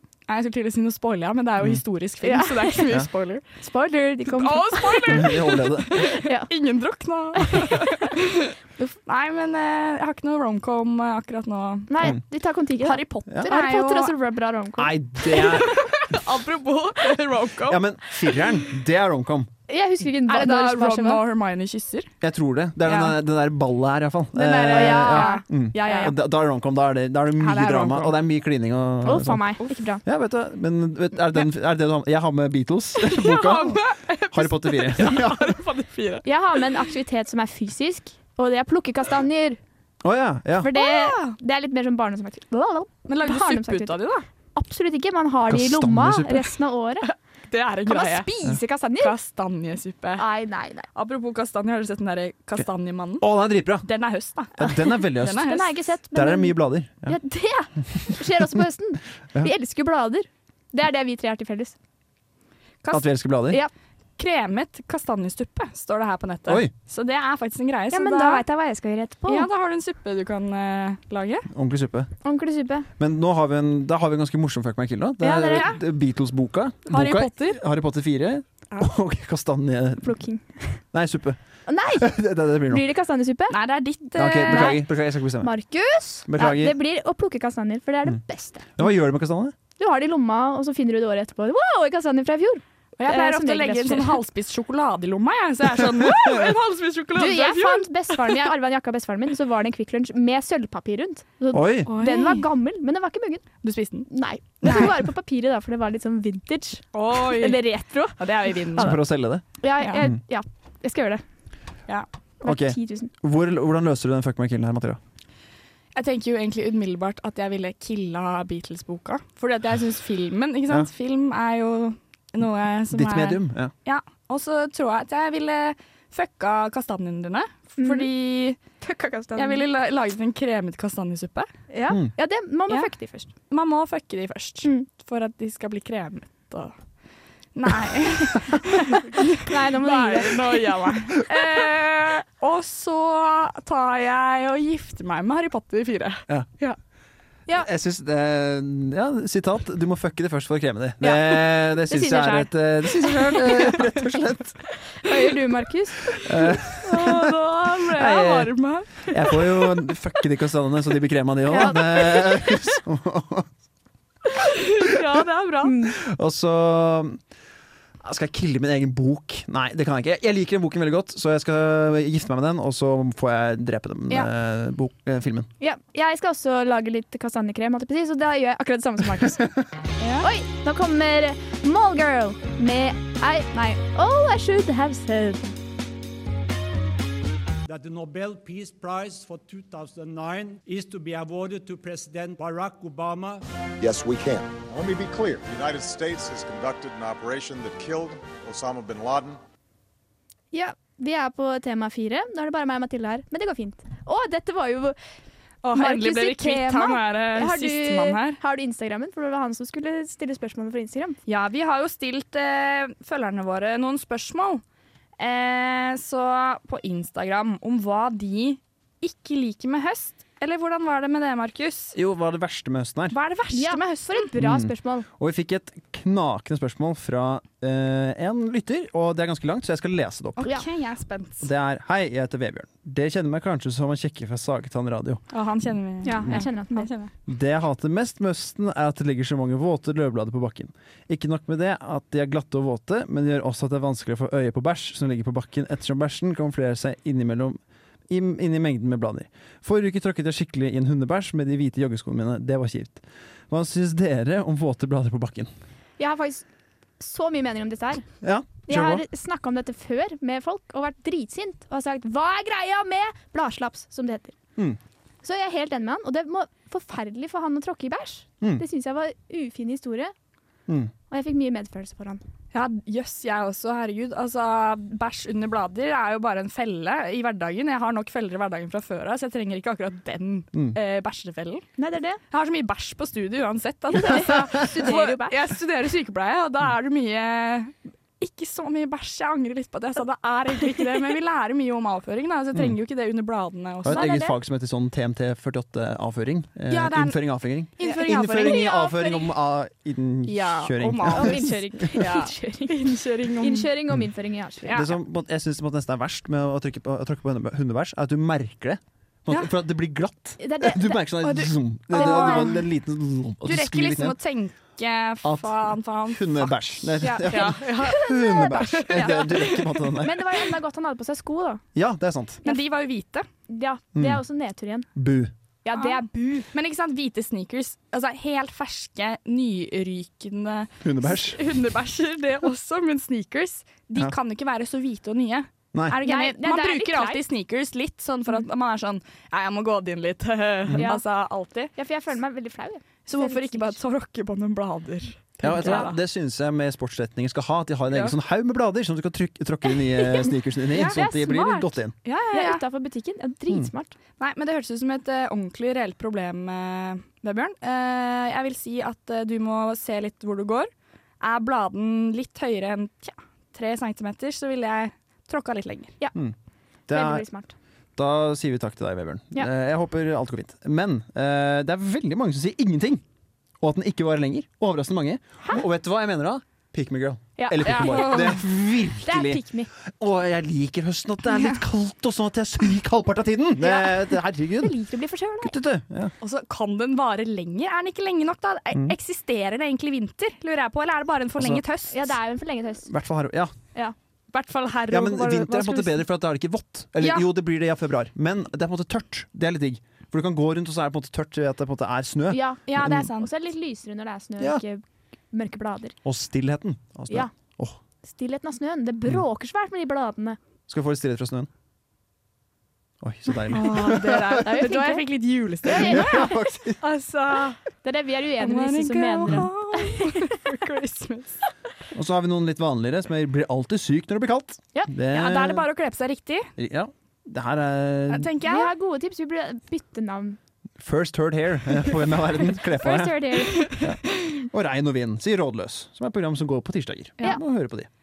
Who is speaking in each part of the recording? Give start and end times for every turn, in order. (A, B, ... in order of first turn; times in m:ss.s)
0:00.3-0:03.4 A
0:02.2-0:02.9 B
0:03.6-0:05.3 B
0:04.3-0:12.1 A
0:05.1-0:05.9 C
0:06.2-0:06.5 B
0:11.9-0:14.9 B
0:12.8-0:14.2 A
0:14.8-0:15.9 C
0:15.3-0:18.4 A
0:17.6-0:19.5 C
0:19.7-0:21.2 B
0:20.2-0:22.1 A
0:22.2-0:29.4 C
0:22.8-0:23.2 A
0:24.4-0:26.1 A
0:24.5-0:26.1 B
0:27.4-0:28.2 A
0:29.0-0:30.0 B
0:30.0-0:35.6 C
0:33.0-0:36.8 A
0:36.2-0:39.6 B
0:40.0-0:40.7 C
0:40.6-0:44.0 B
0:40.7-0:41.4 A
0:43.1-0:44.2 A
0:44.5-0:47.1 B
0:45.5-0:46.5 C
0:47.0-0:48.3 A
0:47.8-0:49.1 B
0:49.0-0:50.2 A
0:50.2-0:50.9 B
0:50.9-0:53.3 A
0:53.2-0:53.8 C
0:53.8-0:55.8 A
0:54.6-0:55.6 C
0:55.4-1:01.7 B
0:56.1-0:57.2 C
1:02.9-1:03.6 C
1:04.2-1:08.4 A
1:06.4-1:06.7 C
1:07.9-1:09.5 B
1:09.3-1:11.5 A
1:11.5-1:12.1 C
1:12.2-1:12.9 B
1:13.0-1:20.2 C
1:15.2-1:15.7 B
1:15.5-1:15.8 A
1:16.9-1:17.6 A
1:20.0-1:20.8 B
1:20.9-1:21.4 C
1:21.7-1:23.6 B
1:21.9-1:22.8 C
1:23.5-1:24.8 A
1:24.2-1:25.5 C
1:24.5-1:24.8 B
1:25.4-1:28.7 B
1:26.3-1:26.8 C
1:28.8-1:29.5 C
1:29.8-1:34.2 B
1:33.0-1:38.5 A
1:37.2-1:43.4 B
1:41.5-1:41.9 C
1:41.9-1:42.5 A
1:43.6-1:44.1 A
1:44.1-1:48.2 B
1:44.6-1:44.9 A
1:46.9-1:47.6 A
1:48.2-1:49.0 A
1:48.7-1:49.0 B
1:48.8-1:49.4 C
1:49.6-1:51.2 B
1:49.8-1:50.1 A
1:52.4-1:53.1 B
1:52.4-1:55.0 C
1:55.9-2:08.6 A
2:02.9-2:03.7 C
2:07.8-2:08.1 B
2:08.8-2:09.6 B
2:09.4-2:11.5 A
2:11.7-2:13.3 B
2:13.5-2:16.7 A
2:17.5-2:26.7 A
2:19.0-2:20.7 B
2:27.5-2:34.6 C
2:31.0-2:33.7 B
2:35.0-2:36.2 B
2:36.2-2:37.3 C
2:36.8-2:39.8 A
2:37.9-2:38.5 C
2:39.0-2:43.5 C
2:41.5-2:42.3 B
2:44.5-2:45.7 A
2:45.6-2:46.0 B
2:46.0-2:47.2 C
2:48.0-2:55.5 C
2:55.6-2:59.5 B
3:00.0-3:00.3 A
3:00.2-3:05.6 B
3:07.6-3:13.4 D
3:13.8-3:19.4 E
3:20.5-3:25.0 B
3:25.6-3:28.4 A
3:25.7-3:31.2 B
3:31.3-3:34.6 A
3:35.2-3:41.9 A
3:41.9-3:43.2 C
3:43.1-3:44.3 A
3:43.5-3:45.1 B
3:44.4-3:50.5 C
3:50.4-3:51.5 A
3:51.4-3:55.2 C
3:55.3-3:57.1 A
3:56.0-3:56.9 B
3:57.3-4:15.5 C
4:16.0-4:16.4 B
4:17.0-4:18.0 B
4:18.2-4:19.0 C
4:18.7-4:24.3 B
4:25.2-4:30.1 B
4:30.7-4:30.9 C
4:31.1-4:32.2 B
4:32.5-4:41.6 A
4:41.8-4:42.2 B
4:42.3-4:54.1 A
4:43.9-4:45.4 B
4:53.8-5:02.0 C
4:53.9-4:54.4 B
4:56.7-4:59.2 A
4:57.8-4:59.1 B
5:00.2-5:03.7 A
5:01.1-5:04.8 B
5:04.6-5:04.9 A
5:04.7-5:14.2 C
5:10.4-5:11.0 B
5:11.2-5:12.6 A
5:11.9-5:12.6 B
5:13.4-5:20.0 A
5:15.2-5:20.1 C
5:17.0-5:19.2 B
5:20.0-5:21.6 B
5:21.7-5:22.4 C
5:22.4-5:23.3 A
5:23.5-5:24.9 B
5:23.9-5:24.2 C
5:24.9-5:25.3 C
5:25.6-5:26.5 B
5:26.5-5:41.7 A
5:30.8-5:31.4 C
5:36.0-5:37.2 B
5:40.8-5:41.0 B
5:41.7-5:43.8 B
5:43.1-5:46.0 A
5:45.4-5:51.9 C
5:45.6-5:45.9 B
5:50.7-5:51.0 A
5:50.8-5:51.7 B
5:52.0-5:52.6 A
5:52.3-5:53.9 B
5:54.2-6:00.7 A
6:01.2-6:05.9 A
6:06.9-6:07.2 C
6:06.9-6:07.5 B
6:08.0-6:13.0 C
6:13.6-6:24.7 C
6:17.4-6:18.4 B
6:17.6-6:18.4 A
6:19.0-6:19.7 B
6:23.6-6:25.5 B
6:25.4-6:26.1 C
6:26.2-6:32.1 A
6:31.4-6:31.6 C
6:31.9-6:32.9 B
6:32.9-6:33.5 C
6:34.3-6:35.9 A
6:34.9-6:43.1 C
6:37.0-6:37.3 A
6:42.3-6:46.0 B
6:42.7-6:43.3 A
6:46.0-6:47.8 C
6:48.0-6:50.4 B
6:50.7-6:51.5 C
6:53.0-6:54.4 C
6:53.5-6:57.6 A
6:54.4-6:55.1 B
6:55.6-6:56.4 B
6:55.6-6:56.8 C
6:57.8-7:00.4 B
6:58.4-7:01.4 A
7:01.9-7:05.7 C
7:05.1-7:06.5 A
7:06.6-7:08.3 C
7:08.1-7:08.7 A
7:08.4-7:10.4 B
7:10.8-7:17.9 C
7:12.8-7:13.7 B
7:13.5-7:13.9 A